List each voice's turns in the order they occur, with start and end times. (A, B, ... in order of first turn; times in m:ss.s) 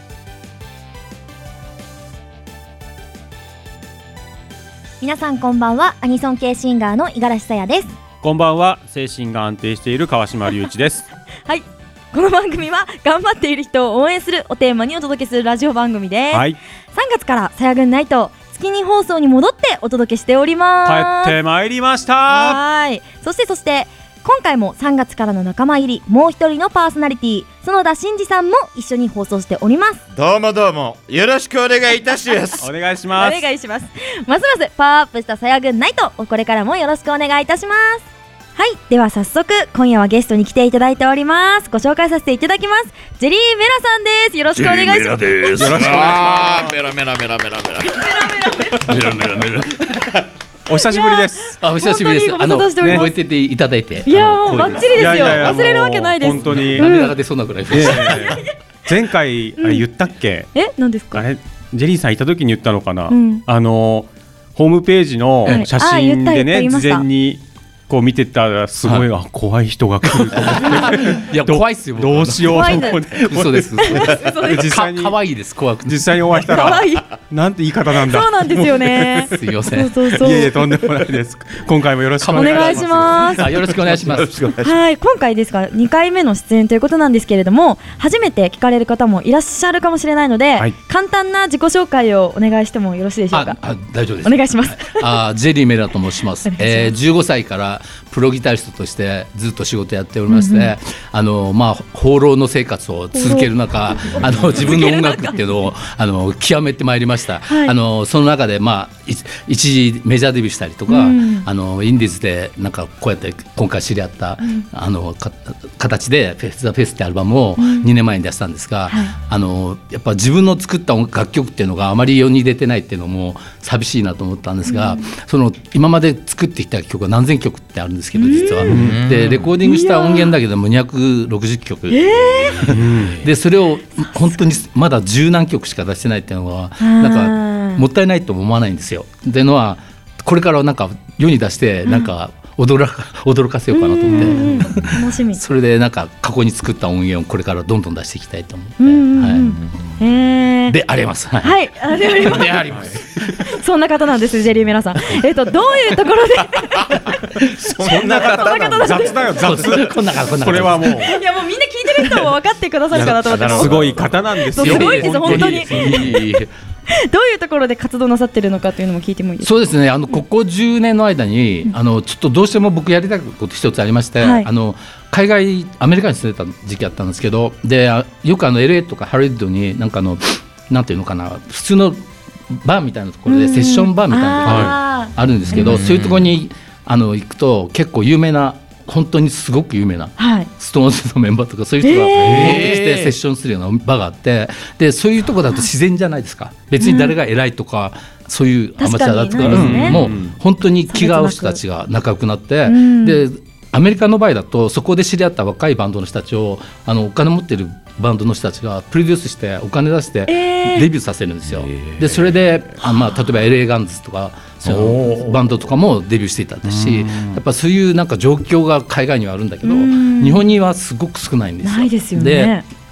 0:05.0-0:07.9 A
0:08.2-0:11.1 B
0:11.5-0:21.4 A
0:16.3-0:16.6 B
0:20.8-0:22.6 B
0:22.3-0:30.0 A
0:30.1-0:32.7 C
0:32.6-0:33.4 B
0:33.2-0:45.5 A
0:44.5-0:50.0 C
0:45.6-0:46.7 B
0:47.8-0:48.9 A
0:48.9-0:49.6 D
0:50.7-0:51.6 B
0:50.9-0:53.2 A
0:51.6-0:55.5 D
0:54.0-0:57.2 A
0:54.9-0:56.9 B
0:56.5-0:58.4 D
0:57.7-1:00.5 B
0:59.6-0:59.8 A
1:00.5-1:01.3 A
1:01.1-1:15.2 B
1:03.1-1:03.4 A
1:05.5-1:07.1 A
1:10.0-1:16.2 D
1:12.5-1:13.0 A
1:13.8-1:14.6 A
1:15.9-1:19.3 B
1:16.5-1:17.1 A
1:18.0-1:20.5 A
1:19.3-1:19.9 D
1:20.2-1:24.2 B
1:22.2-1:24.4 D
1:22.3-1:23.5 A
1:23.6-1:24.8 C
1:24.6-1:33.6 A
1:33.3-2:29.6 D
1:34.2-1:35.2 A
1:36.4-1:36.9 A
1:40.3-1:40.7 A
1:43.1-1:45.4 A
1:47.5-1:47.7 A
1:50.9-1:51.5 A
1:54.4-1:54.7 A
1:57.6-1:57.9 A
1:58.9-1:59.2 A
2:04.6-2:05.1 A
2:08.2-2:08.7 A
2:08.7-2:09.0 B
2:08.7-2:09.5 C
2:09.6-2:10.4 A
2:11.9-2:12.7 A
2:12.7-2:13.2 B
2:14.0-2:14.5 A
2:16.8-2:17.8 A
2:21.9-2:22.1 A
2:23.7-2:25.4 A
2:28.8-2:30.8 A
2:30.7-2:33.1 D
2:31.4-2:32.6 A
2:32.3-2:33.0 C
2:33.6-2:37.1 A
2:37.6-2:39.5 C
2:37.8-2:41.1 B
2:37.9-2:39.2 A
2:39.4-2:41.1 D
2:41.0-2:46.0 A
2:42.9-2:46.1 B
2:43.2-2:44.3 C
2:44.6-2:46.5 D
2:45.5-2:45.8 C
2:46.9-2:49.5 A
2:49.4-3:42.6 D
2:54.2-2:54.5 A
3:03.3-3:05.8 A
3:04.4-3:04.8 B
3:05.6-3:06.2 C
3:10.2-3:10.5 A
3:11.8-3:12.6 A
3:12.3-3:12.6 B
3:12.4-3:13.1 C
3:16.8-3:17.2 A
3:18.8-3:20.0 A
3:19.4-3:20.4 B
3:20.9-3:21.6 A
3:22.7-3:23.2 A
3:30.3-3:30.9 A
3:31.6-3:32.4 C
3:32.8-3:33.2 A
3:34.6-3:35.3 C
3:36.7-3:37.4 B
3:39.6-3:40.5 A
3:41.6-3:42.6 A